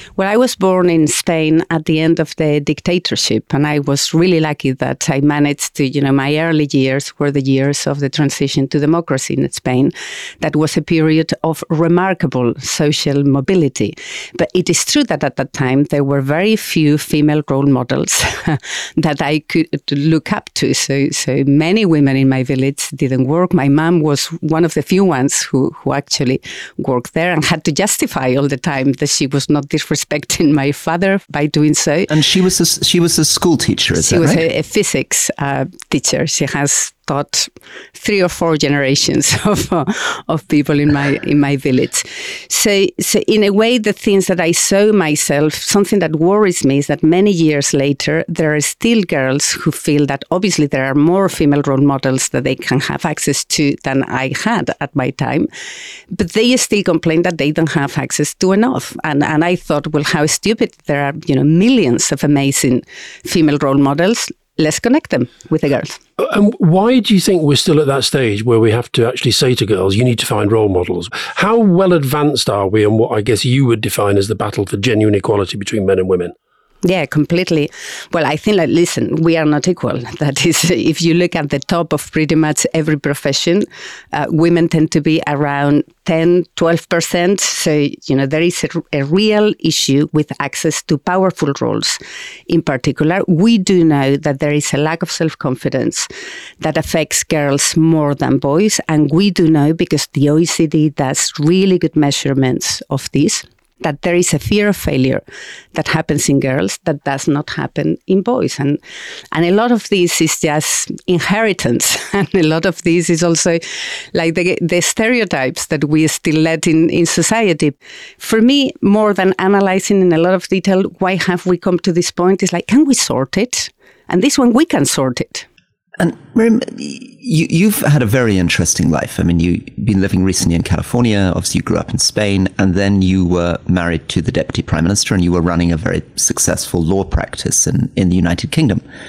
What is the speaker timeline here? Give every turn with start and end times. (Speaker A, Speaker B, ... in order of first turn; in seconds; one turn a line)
Speaker A: 0.2-32.1
Speaker B: 32.1-34.4
Speaker A: 34.0-55.5
Speaker A: 56.1-66.0
Speaker C: 66.2-76.3
Speaker A: 76.8-96.1
Speaker A: 96.6-105.2
Speaker A: 105.7-108.8
Speaker A: 109.3-113.6
Speaker A: 114.1-125.5
Speaker B: 126.0-138.8